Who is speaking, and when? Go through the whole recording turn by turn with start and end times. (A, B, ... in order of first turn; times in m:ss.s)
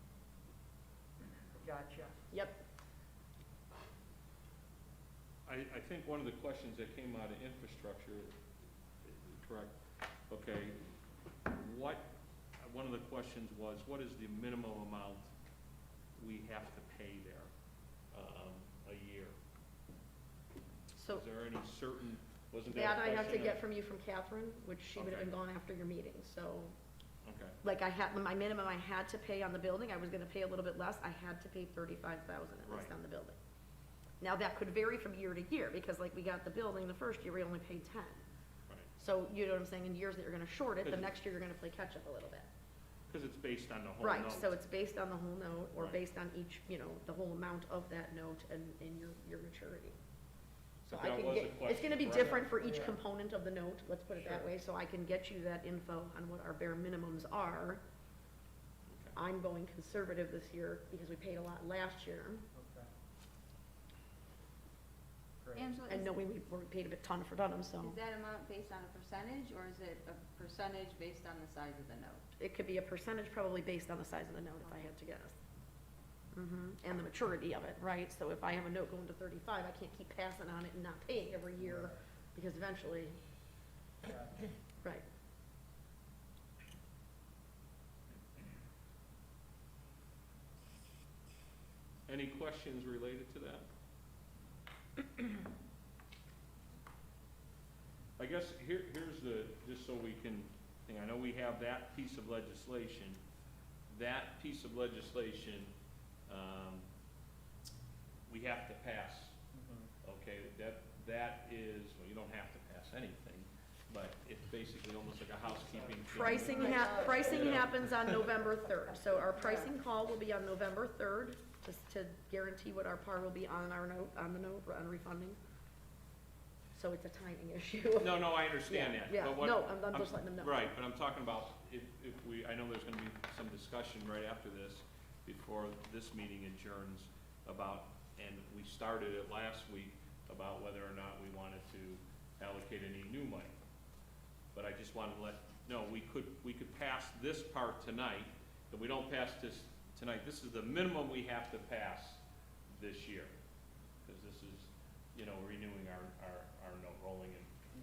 0:01.6-0:02.1 A
0:02.3-0:02.6 B
0:05.4-0:08.3 C
0:09.0-0:09.8 C
0:10.3-0:10.8 C
0:11.4-0:12.1 C
0:12.6-0:15.3 C
0:16.2-0:17.5 C
0:18.1-0:19.3 C
0:21.0-0:23.6 C
0:21.0-0:21.2 B
0:22.7-0:26.7 B
0:24.9-0:25.3 C
0:27.2-0:27.6 C
0:27.6-0:33.4 B
0:32.6-0:32.9 C
0:34.2-0:38.2 B
0:39.0-0:42.5 B
0:40.8-0:41.1 C
0:43.1-0:44.6 C
0:44.0-0:50.0 B
0:50.8-0:52.6 C
0:50.9-0:57.8 B
0:52.6-0:53.0 A
0:54.2-0:54.5 C
0:58.9-0:59.2 C
0:59.1-1:02.4 B
1:02.5-1:02.9 A
1:05.4-1:05.7 A
1:05.5-1:06.1 D
1:05.9-1:08.0 B
1:07.8-1:12.2 D
1:12.4-1:15.3 B
1:16.3-1:23.2 B
1:21.6-1:21.9 A
1:24.1-1:24.4 A
1:32.1-1:33.7 C
1:38.2-1:43.2 C
1:43.9-1:45.7 C
1:46.3-1:46.8 C
1:48.3-1:49.4 C
1:50.0-1:58.1 C
1:56.1-2:05.4 B
1:56.5-1:57.4 D
1:59.4-1:59.7 D
2:06.7-2:10.6 B
2:08.0-2:23.5 C
2:24.5-2:33.3 C
2:34.0-2:37.5 C